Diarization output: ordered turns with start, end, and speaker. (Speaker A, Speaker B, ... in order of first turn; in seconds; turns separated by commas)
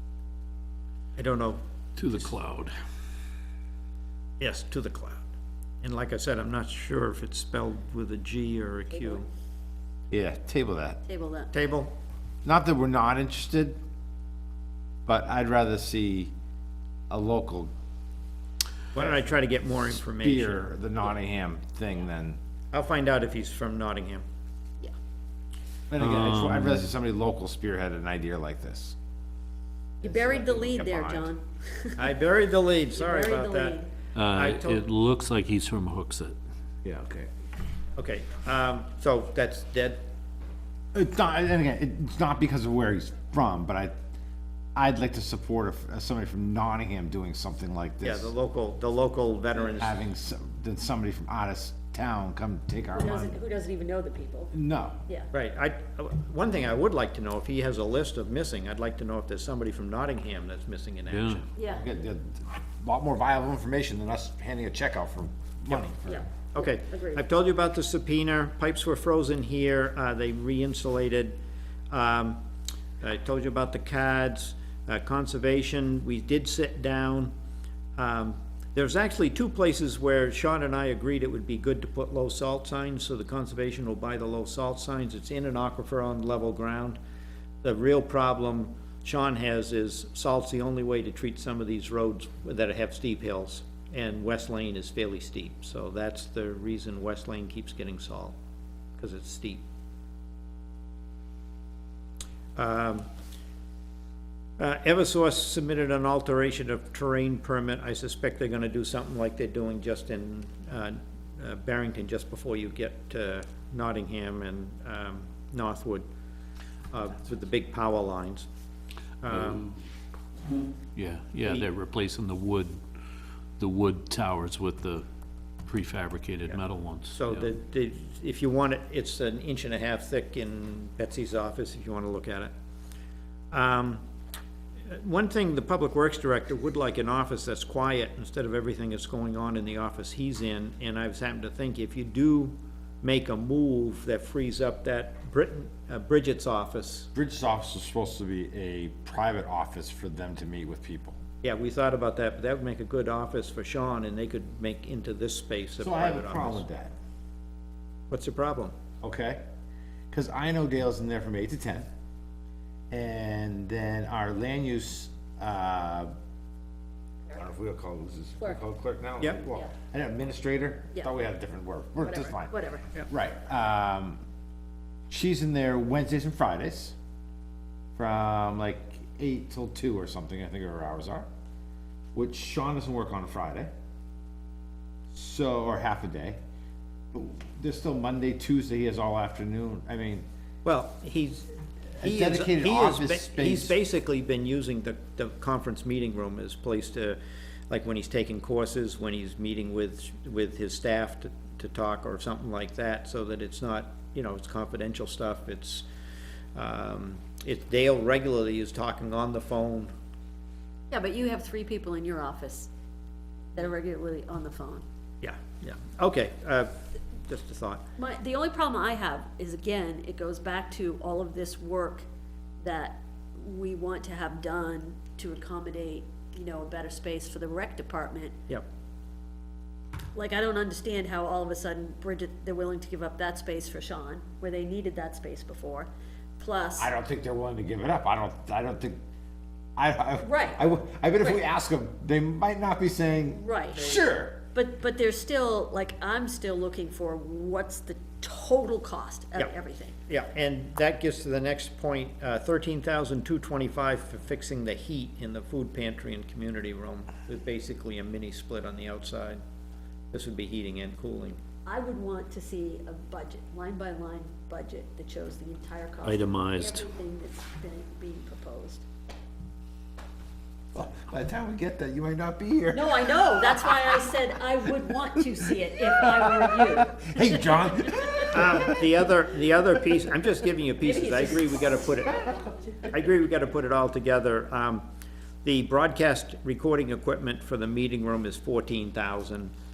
Speaker A: 1.2-2.3, Speaker B: 2.0-2.7, Speaker A: 4.4-5.3, Speaker A: 5.8-9.3, Speaker C: 10.1-11.0, Speaker D: 11.1-11.5, Speaker A: 11.5-11.9, Speaker C: 12.4-13.8, Speaker C: 15.1-16.3, Speaker C: 17.1-17.7, Speaker A: 18.9-20.6, Speaker C: 20.1-22.4, Speaker A: 22.7-24.2, Speaker C: 25.9-29.0, Speaker B: 26.0-26.9, Speaker D: 30.0-32.1, Speaker C: 30.0-31.3, Speaker A: 32.0-33.8, Speaker D: 32.9-33.9, Speaker B: 34.1-36.4, Speaker A: 34.3-34.9, Speaker C: 36.9-37.3, Speaker A: 38.0-40.0, Speaker C: 40.9-43.9, Speaker C: 44.8-48.3, Speaker A: 48.0-50.0, Speaker C: 49.7-53.4, Speaker D: 52.9-54.5, Speaker C: 54.5-55.0, Speaker A: 55.3-61.5, Speaker B: 61.1-61.4, Speaker D: 61.6-61.8, Speaker C: 61.6-66.2, Speaker D: 66.0-67.2, Speaker A: 66.5-71.4, Speaker A: 71.9-72.4, Speaker A: 73.0-77.3, Speaker A: 78.0-87.0, Speaker A: 87.6-98.4, Speaker A: 99.0-99.6, Speaker A: 102.6-103.1, Speaker A: 104.6-116.1, Speaker A: 116.9-118.5, Speaker A: 119.2-119.7, Speaker B: 119.3-119.7, Speaker B: 121.0-122.9, Speaker B: 123.6-125.0, Speaker B: 125.7-127.5, Speaker A: 127.1-132.5, Speaker A: 133.5-134.1, Speaker A: 134.9-147.1, Speaker C: 147.2-151.2, Speaker A: 151.4-156.7, Speaker C: 155.8-156.9, Speaker A: 158.1-158.8, Speaker C: 159.0-159.4, Speaker C: 160.1-161.9, Speaker C: 162.9-166.1, Speaker C: 167.3-174.2, Speaker D: 172.0-172.9, Speaker C: 175.1-177.0, Speaker C: 178.0-181.3, Speaker C: 182.1-183.7, Speaker C: 185.1-186.4, Speaker C: 187.1-190.3, Speaker A: 190.7-191.5, Speaker C: 192.0-193.8, Speaker A: 192.0-197.2, Speaker A: 197.7-205.9, Speaker A: 206.6-209.9, Speaker D: 210.9-212.7, Speaker D: 213.5-214.8, Speaker A: 215.2-217.8, Speaker D: 218.0-222.1, Speaker D: 222.6-228.4, Speaker D: 230.1-236.9, Speaker C: 236.8-239.0, Speaker C: 239.8-244.4, Speaker D: 240.2-240.6, Speaker D: 243.3-249.9, Speaker A: 250.1-259.4, Speaker A: 260.1-261.4, Speaker D: 261.7-268.9, Speaker B: 266.0-266.9, Speaker C: 270.7-274.0, Speaker D: 272.7-278.2, Speaker C: 276.0-278.9, Speaker A: 278.3-284.9, Speaker D: 280.8-281.4, Speaker A: 285.4-289.5